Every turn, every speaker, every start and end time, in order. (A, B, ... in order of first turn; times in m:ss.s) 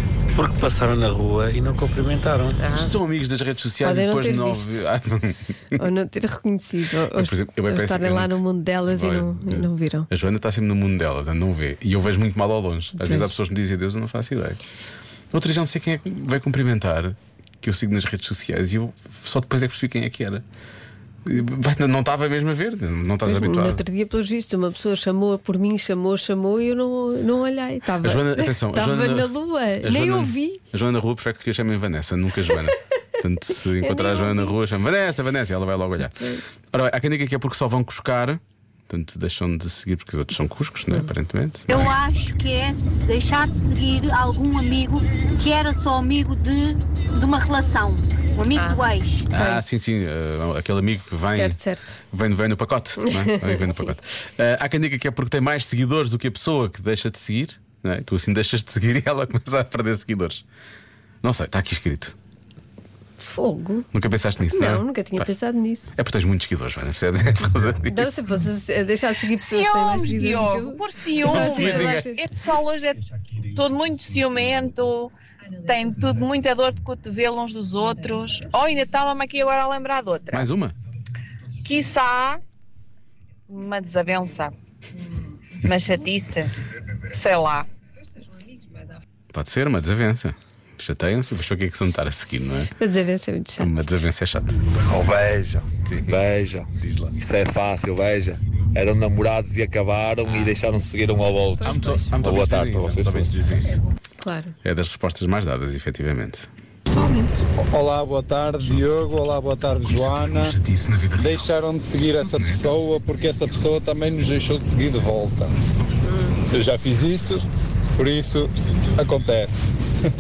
0:00.4-0:02.6 A
0:02.6-0:02.9 B
0:02.7-0:05.8 C
0:03.8-0:04.8 B
0:05.8-0:10.1 B
0:07.2-0:14.6 C
0:13.0-0:13.3 B
0:15.3-0:20.4 C
0:21.3-0:23.8 C
0:23.3-0:30.6 B
0:28.0-0:36.2 C
0:33.8-0:34.6 B
0:36.0-0:36.4 B
0:36.7-0:41.8 C
0:41.7-0:49.0 D
0:48.5-0:49.6 B
0:49.3-0:51.6 C
0:51.0-0:52.0 B
0:52.1-1:00.4 C
0:53.0-0:53.9 B
1:01.2-1:02.2 C
1:03.2-1:03.9 B
1:03.9-1:05.3 C
1:04.5-1:06.0 B
1:06.0-1:08.2 C
1:07.9-1:12.3 B
1:09.4-1:15.1 E
1:11.2-1:12.0 C
1:15.6-1:20.5 E
1:20.3-1:20.8 C
1:21.6-1:22.4 E
1:23.5-1:24.5 E
1:25.6-1:26.5 E
1:27.1-1:27.7 E
1:29.3-1:32.7 C
1:32.8-1:33.8 B
1:33.6-1:34.6 C
1:34.8-1:43.4 F
1:35.9-1:36.2 C
1:40.3-1:40.5 C
1:41.6-1:42.2 B
1:41.6-1:43.8 C
1:44.2-1:44.6 B
1:44.6-1:46.5 C
1:47.6-1:50.6 G
1:48.7-1:49.1 C
1:49.8-1:51.6 C
1:51.2-1:55.6 G
1:52.2-1:52.8 C
1:56.5-1:57.4 G
1:58.0-1:59.6 G